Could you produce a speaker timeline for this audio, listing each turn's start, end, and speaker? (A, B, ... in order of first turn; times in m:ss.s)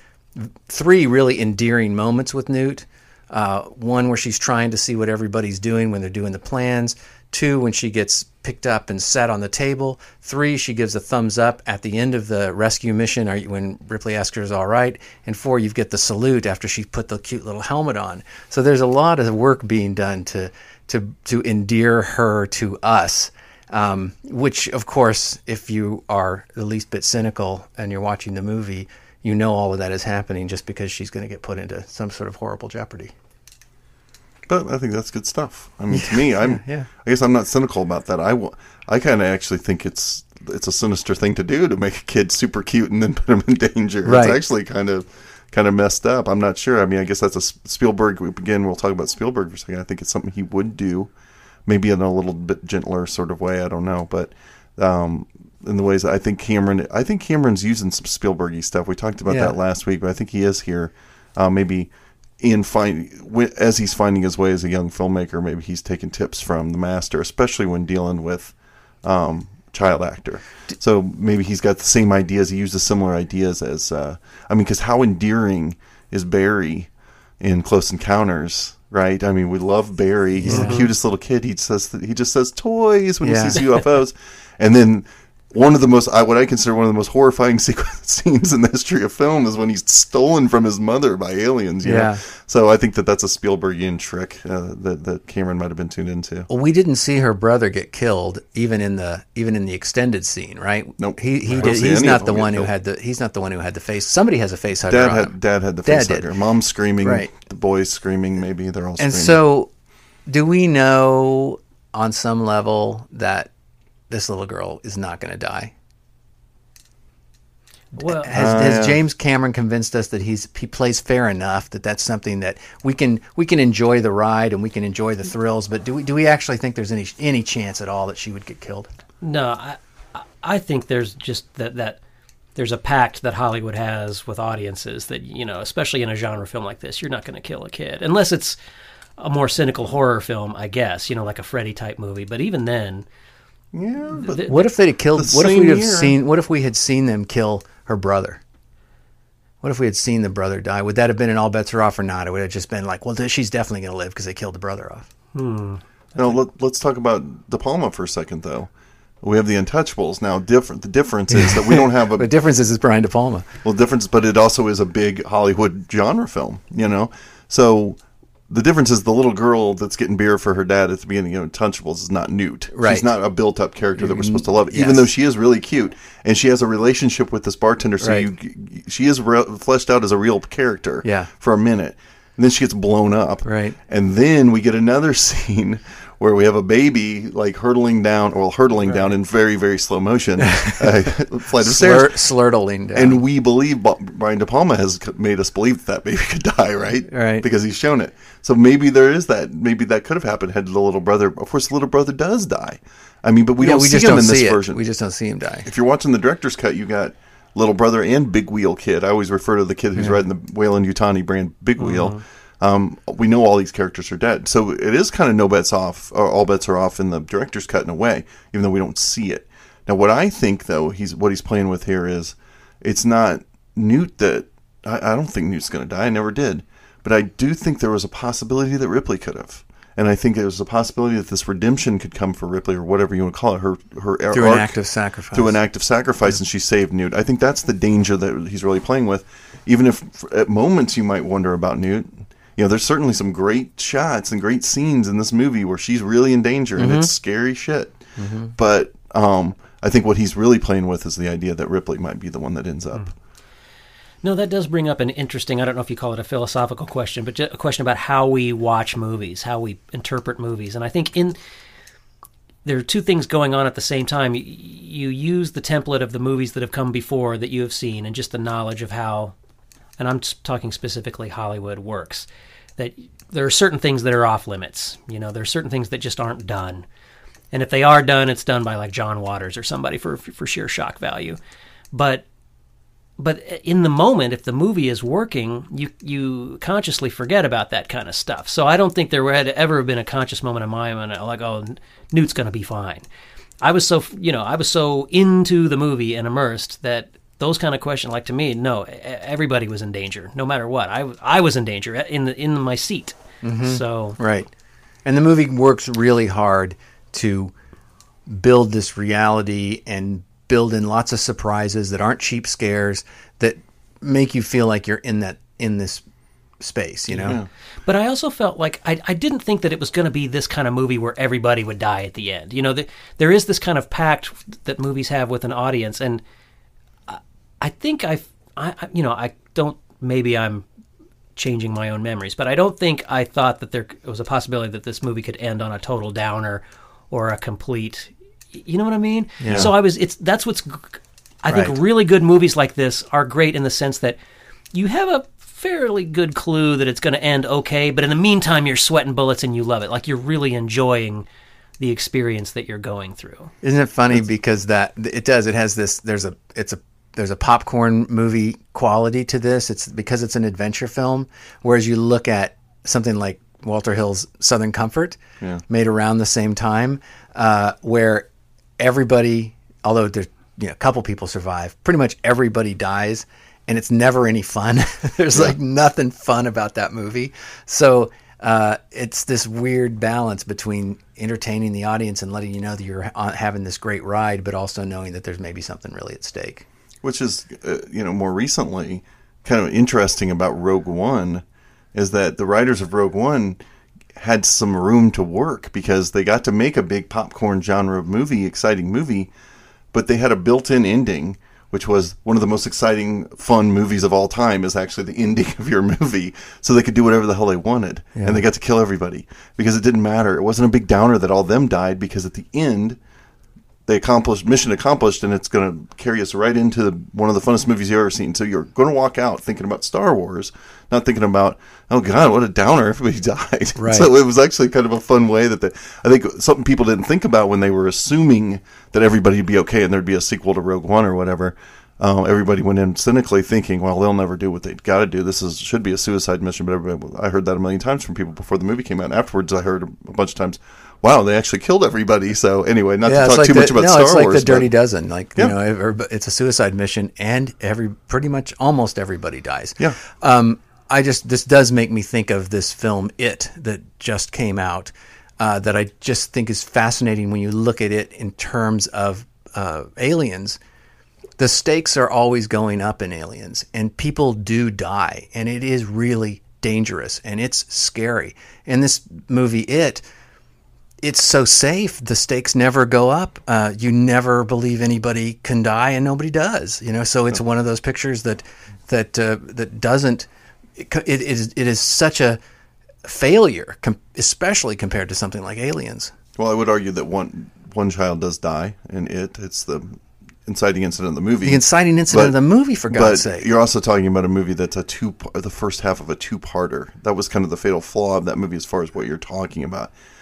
0:00.4-0:33.1 A
0:34.5-0:51.1 B
0:35.9-0:36.9 A
0:44.0-0:44.4 A
0:51.7-1:16.9 B
0:59.3-0:59.6 A
1:17.4-1:36.5 B
1:20.4-1:20.9 A
1:20.5-1:20.9 C
1:23.2-1:23.6 A
1:31.8-1:32.2 A
1:36.5-1:45.3 A
1:41.0-1:42.7 B
1:44.9-1:49.4 B
1:45.8-1:46.3 A
1:47.0-1:47.3 A
1:49.0-1:49.7 A
1:50.3-1:53.5 A
1:54.1-1:55.7 A
1:58.0-1:58.3 C
1:58.0-2:08.9 A
1:58.3-1:59.0 B
2:09.2-2:12.0 C
2:12.6-2:18.6 C
2:19.2-2:23.1 C
2:23.7-2:24.6 B
2:24.2-2:24.5 C
2:24.5-2:28.4 A
2:25.2-2:26.2 B
2:29.6-2:35.1 A
2:35.3-2:35.8 C
2:36.2-2:38.7 B
2:39.2-2:42.3 B
2:41.3-2:43.5 A
2:43.6-3:12.2 B
2:52.7-2:53.1 A
2:54.0-2:55.1 A
2:58.0-2:58.3 A
3:01.0-3:01.3 A
3:03.5-3:03.8 A
3:10.4-3:10.9 A
3:11.6-3:13.2 A
3:12.9-3:24.8 B
3:17.1-3:17.5 A
3:23.6-3:25.7 A
3:25.7-3:54.8 B
3:31.8-3:32.2 C
3:54.3-3:55.6 A
3:55.3-4:08.0 B
4:06.8-4:07.1 A
4:08.2-4:08.5 A
4:08.6-4:13.1 B
4:14.2-4:21.4 C
4:22.6-4:29.3 C
4:30.0-4:36.9 C
4:37.5-4:41.4 C
4:41.9-4:42.2 C
4:43.2-4:53.0 C
4:53.6-5:04.2 C
5:03.4-5:04.5 A
5:05.0-5:07.5 A
5:08.3-5:16.0 A
5:16.6-5:17.4 A
5:17.2-5:17.5 B
5:17.8-5:26.2 C
5:27.1-5:30.6 C
5:31.4-5:44.2 C
5:39.4-5:39.7 A
5:41.5-5:41.8 A
5:44.7-5:51.3 C
5:51.8-5:53.5 C
5:53.6-6:08.3 A
6:08.8-6:26.7 A
6:27.0-6:33.6 B
6:34.2-6:39.3 B
6:39.9-6:53.0 B
6:48.2-6:48.4 A
6:53.9-7:24.7 B
7:03.8-7:04.1 A
7:23.0-7:40.6 A
7:41.4-7:50.0 A
7:51.0-8:02.4 A
8:03.0-8:06.1 A
8:06.4-8:12.4 B
8:11.4-8:13.5 A
8:12.9-8:19.9 B